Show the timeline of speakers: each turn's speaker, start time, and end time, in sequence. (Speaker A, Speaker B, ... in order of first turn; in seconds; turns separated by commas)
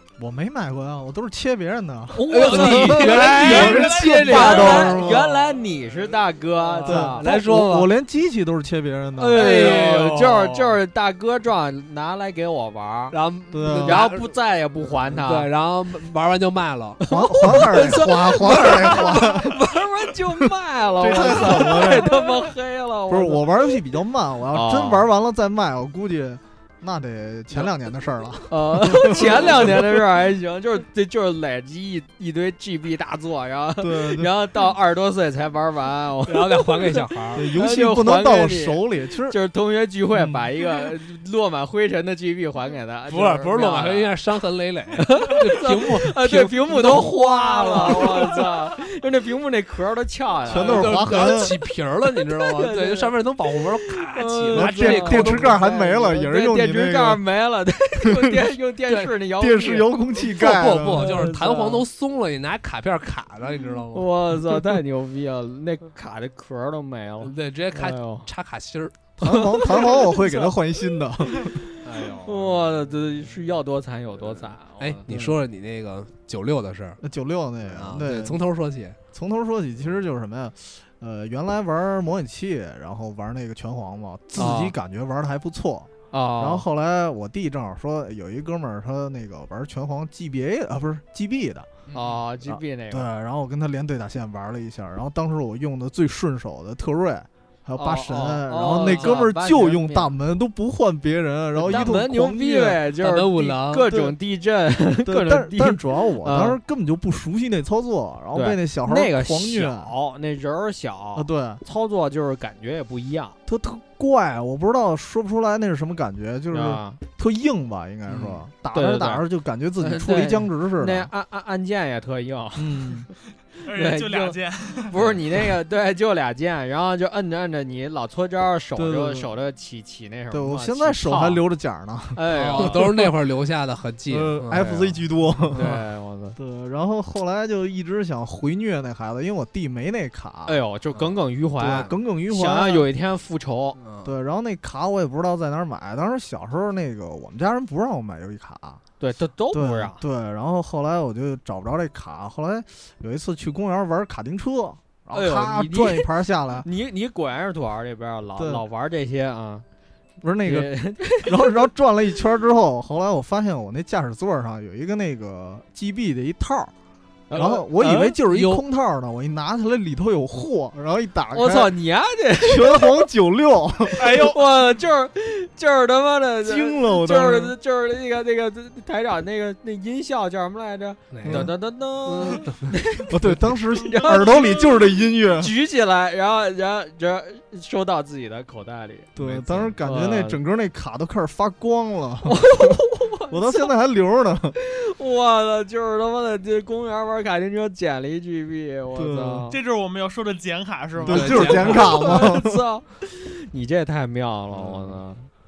Speaker A: 0.2-5.3, Speaker B: 2.1-7.3, Speaker C: 2.3-5.3, Speaker C: 6.7-7.9, Speaker A: 6.8-9.5, Speaker B: 9.2-13.2, Speaker C: 9.3-10.8, Speaker C: 13.1-14.3, Speaker A: 13.5-14.1, Speaker B: 13.8-15.5, Speaker C: 14.9-17.0, Speaker B: 17.0-23.8, Speaker A: 17.1-19.6, Speaker A: 21.0-22.2, Speaker A: 23.1-30.0, Speaker B: 24.5-25.1, Speaker B: 28.5-44.1, Speaker A: 33.8-34.3, Speaker C: 36.3-37.5, Speaker A: 37.3-39.4, Speaker A: 40.1-40.5, Speaker C: 43.1-48.5, Speaker B: 45.0-51.5, Speaker A: 50.5-51.6, Speaker C: 50.5-55.6, Speaker B: 52.1-60.0, Speaker A: 54.5-57.2, Speaker A: 58.0-58.4, Speaker A: 59.4-61.3, Speaker C: 60.2-64.1, Speaker B: 60.9-61.9, Speaker B: 63.9-68.3, Speaker C: 67.2-69.1, Speaker A: 69.2-71.6, Speaker B: 69.2-70.5, Speaker B: 71.3-75.0, Speaker C: 71.8-72.7, Speaker C: 74.2-77.0, Speaker A: 75.1-75.4, Speaker A: 77.0-78.4, Speaker C: 77.7-79.0, Speaker A: 79.1-91.7, Speaker B: 84.4-84.8, Speaker B: 86.1-86.7, Speaker C: 91.9-92.2, Speaker B: 91.9-93.1, Speaker A: 92.5-102.8, Speaker B: 97.8-100.1, Speaker C: 98.7-99.2, Speaker C: 101.6-104.1, Speaker B: 101.6-106.6, Speaker A: 105.1-109.9, Speaker B: 108.3-113.4, Speaker A: 111.2-111.6, Speaker A: 113.5-121.1, Speaker B: 116.5-117.0, Speaker B: 118.1-119.3, Speaker B: 119.8-123.1, Speaker A: 122.6-123.1, Speaker D: 123.6-125.0, Speaker B: 123.7-131.4, Speaker A: 128.8-129.3, Speaker A: 130.3-133.1, Speaker B: 132.2-132.9, Speaker C: 132.3-134.8, Speaker A: 134.1-135.8, Speaker B: 134.5-134.9, Speaker B: 135.5-136.4, Speaker A: 136.4-140.6, Speaker B: 140.5-143.8, Speaker A: 141.6-142.9, Speaker C: 143.8-144.1, Speaker A: 144.0-148.8, Speaker B: 149.0-150.0, Speaker A: 149.5-156.7, Speaker B: 155.1-156.1, Speaker B: 156.6-159.7, Speaker A: 158.4-158.6, Speaker A: 160.2-166.7, Speaker B: 160.4-161.6, Speaker B: 167.3-168.2, Speaker A: 167.3-171.8, Speaker C: 168.3-168.6, Speaker B: 171.3-173.1, Speaker A: 172.4-174.3, Speaker D: 174.0-174.4, Speaker B: 174.0-189.1, Speaker A: 176.4-177.6, Speaker C: 181.1-182.7, Speaker A: 181.2-181.5, Speaker A: 183.1-185.5, Speaker D: 184.1-184.7, Speaker A: 189.2-194.6, Speaker C: 189.2-189.8, Speaker B: 189.8-190.4, Speaker B: 192.2-193.7, Speaker B: 194.6-199.6, Speaker A: 198.9-199.5, Speaker D: 199.5-201.9, Speaker A: 201.0-202.6, Speaker C: 201.1-202.0, Speaker B: 201.2-205.3, Speaker C: 204.5-205.0